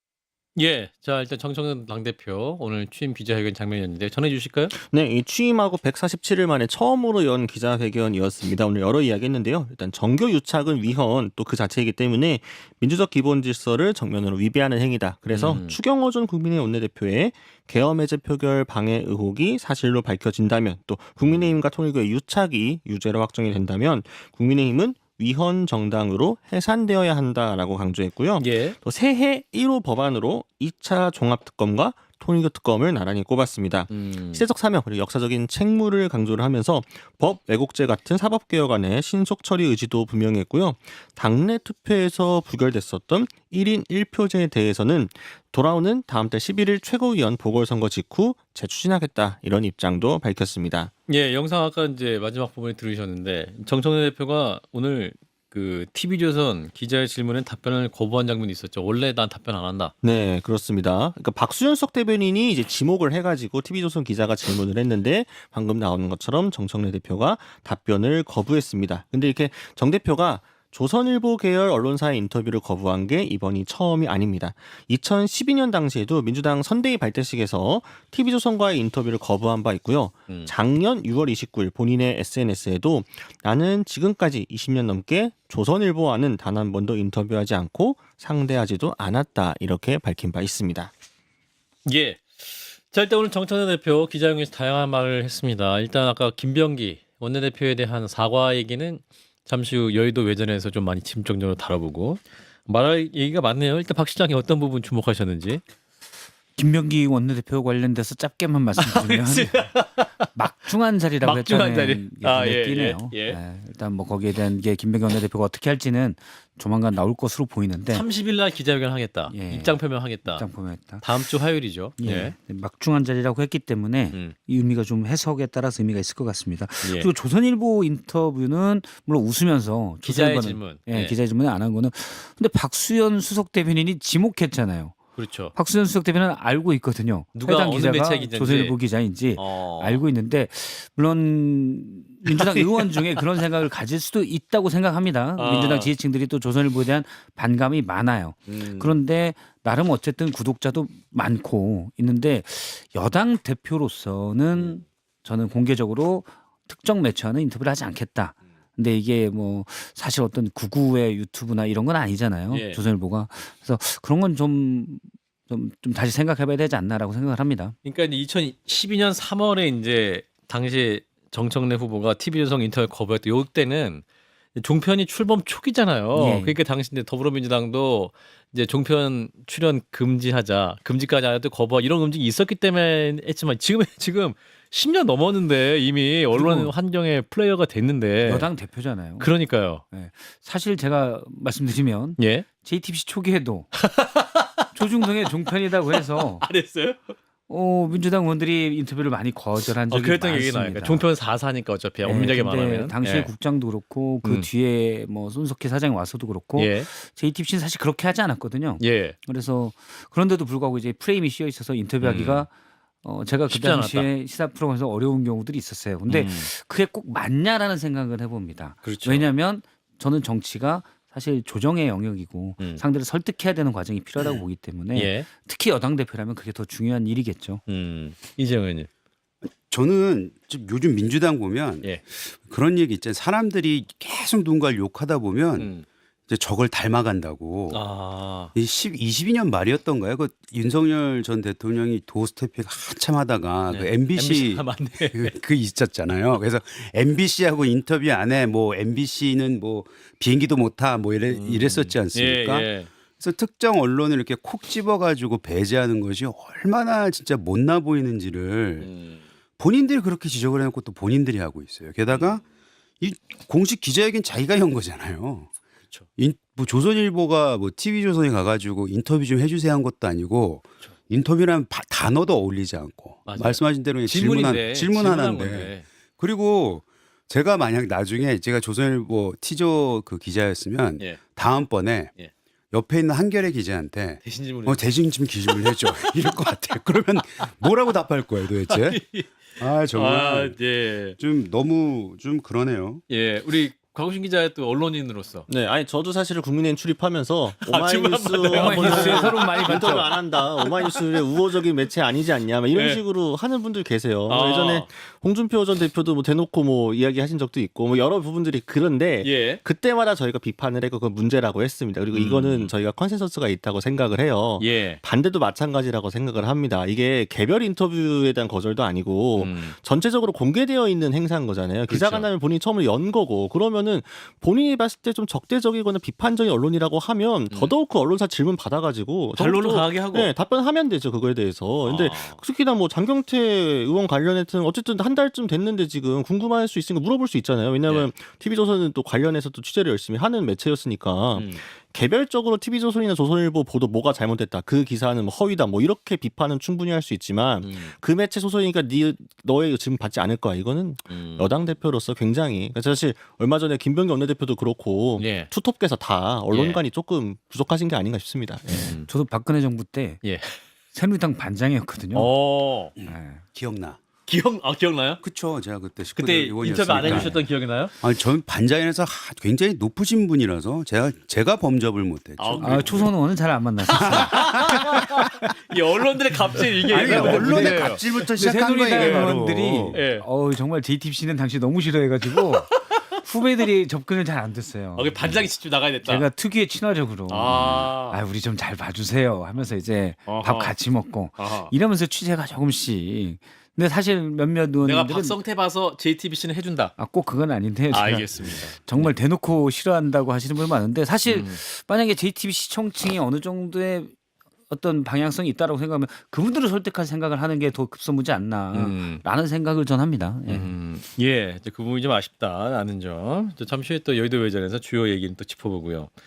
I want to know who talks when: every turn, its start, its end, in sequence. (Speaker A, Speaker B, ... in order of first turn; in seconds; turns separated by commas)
Speaker A: 0.6-4.7, Speaker B: 4.8-50.9, Speaker A: 15.3-15.8, Speaker A: 21.3-21.6, Speaker A: 28.4-28.8, Speaker A: 33.9-34.4, Speaker A: 51.1-59.9, Speaker B: 60.0-90.9, Speaker A: 91.8-105.6, Speaker C: 106.5-118.0, Speaker A: 108.8-110.3, Speaker A: 111.2-113.4, Speaker A: 117.9-120.5, Speaker C: 119.3-121.1, Speaker A: 121.0-122.3, Speaker C: 122.0-135.0, Speaker A: 126.8-127.1, Speaker A: 130.0-131.1, Speaker A: 135.2-135.5, Speaker C: 135.5-167.7, Speaker A: 137.3-138.8, Speaker A: 139.3-140.0, Speaker A: 142.3-142.9, Speaker A: 145.4-145.9, Speaker A: 148.5-149.0, Speaker A: 162.5-162.8, Speaker A: 167.8-174.0, Speaker A: 174.6-188.5, Speaker C: 176.1-176.6, Speaker C: 186.3-186.7, Speaker C: 188.2-193.9, Speaker A: 189.2-189.8, Speaker A: 192.2-192.4, Speaker A: 193.8-194.7, Speaker C: 194.7-196.5, Speaker A: 195.9-197.1, Speaker C: 197.5-201.1, Speaker A: 199.9-203.3, Speaker C: 202.0-212.5, Speaker A: 204.2-204.5, Speaker A: 206.6-206.9, Speaker A: 208.8-209.2, Speaker A: 212.0-212.4, Speaker C: 213.0-227.6, Speaker A: 213.5-214.1, Speaker A: 216.1-216.5, Speaker A: 218.8-219.3, Speaker A: 224.9-225.3, Speaker A: 227.7-228.9, Speaker D: 229.7-235.8, Speaker A: 235.6-235.8, Speaker D: 236.3-237.8, Speaker A: 237.7-238.5, Speaker D: 238.5-258.9, Speaker A: 243.7-245.3, Speaker A: 251.3-252.9, Speaker A: 258.8-259.2, Speaker D: 259.6-262.4, Speaker A: 262.1-262.3, Speaker D: 263.0-265.5, Speaker D: 266.1-282.1, Speaker A: 273.2-275.9, Speaker D: 282.7-290.6, Speaker A: 284.2-284.9, Speaker A: 285.5-286.3, Speaker A: 288.7-291.2, Speaker D: 291.2-293.0, Speaker A: 293.1-295.5, Speaker B: 295.5-358.9, Speaker A: 297.6-300.0, Speaker C: 298.5-300.1, Speaker A: 300.6-301.0, Speaker A: 302.7-303.0, Speaker A: 304.3-304.9, Speaker A: 309.2-309.6, Speaker A: 312.1-312.7, Speaker A: 314.6-315.0, Speaker A: 319.4-319.8, Speaker A: 321.9-322.3, Speaker A: 329.4-330.3, Speaker A: 331.8-332.4, Speaker A: 341.3-341.6, Speaker A: 347.6-347.9, Speaker A: 351.1-351.5, Speaker A: 355.2-355.5, Speaker A: 356.5-356.8, Speaker A: 358.7-359.1, Speaker C: 359.1-360.2, Speaker A: 360.2-360.6, Speaker C: 360.9-362.3, Speaker A: 362.1-362.9, Speaker C: 363.0-363.4, Speaker D: 363.0-364.0, Speaker A: 364.3-365.2, Speaker D: 365.2-367.4, Speaker A: 366.1-367.9, Speaker C: 367.0-367.4, Speaker D: 368.0-373.1, Speaker A: 372.4-373.1, Speaker C: 372.6-374.9, Speaker A: 373.8-378.0, Speaker D: 373.9-375.1, Speaker D: 376.9-380.0, Speaker C: 376.9-385.5, Speaker A: 378.9-379.4, Speaker A: 379.9-380.2, Speaker A: 382.3-383.0, Speaker A: 384.9-386.3, Speaker C: 386.0-395.4, Speaker A: 387.3-388.2, Speaker A: 390.2-390.7, Speaker A: 391.4-391.7, Speaker A: 394.8-396.9, Speaker C: 397.0-404.1, Speaker A: 397.9-399.1, Speaker A: 401.3-401.6, Speaker C: 404.7-410.7, Speaker A: 408.7-409.2, Speaker A: 410.5-416.1